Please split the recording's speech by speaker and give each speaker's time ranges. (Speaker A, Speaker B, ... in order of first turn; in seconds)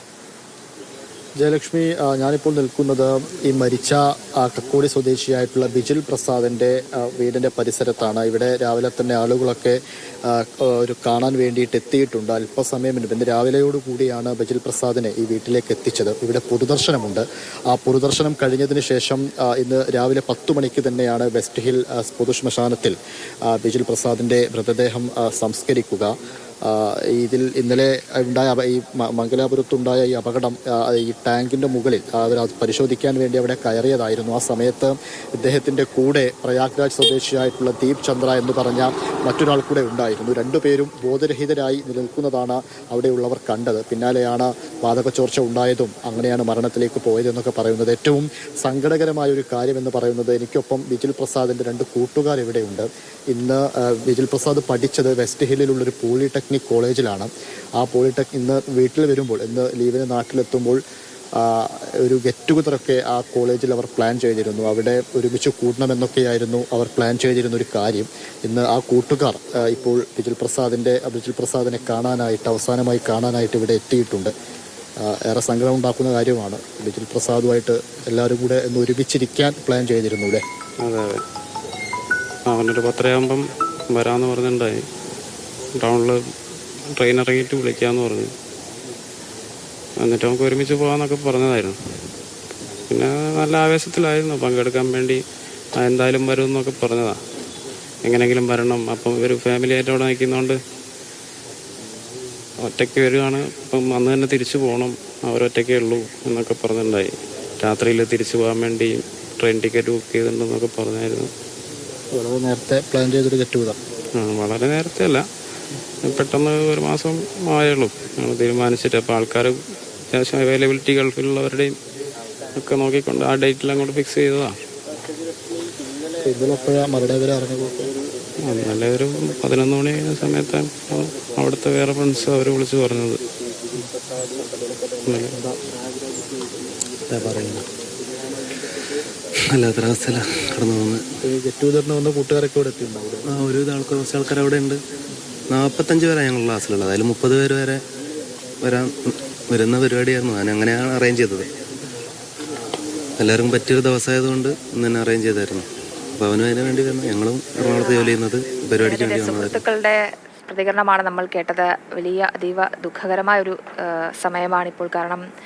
Speaker A: 1.4-60.8, 61.4-74.3, 75.0-80.4, 112.1-113.8, 126.2-127.9, 137.1-137.7, 141.2-143.2
Speaker B: 80.8-81.2, 82.5-84.9, 85.8-86.2, 86.9-88.3, 90.0-91.8, 92.9-95.2, 95.8-97.2, 98.0-100.6, 102.6-111.3, 114.2-115.3, 116.0-121.8, 122.5-124.6, 128.4-133.2, 135.1-135.3
Speaker C: 139.4-141.0, 143.3-144.8, 145.5-147.8, 148.6-151.5, 153.2-155.7, 156.2-159.6
Speaker D: 157.8-158.1, 158.8-165.2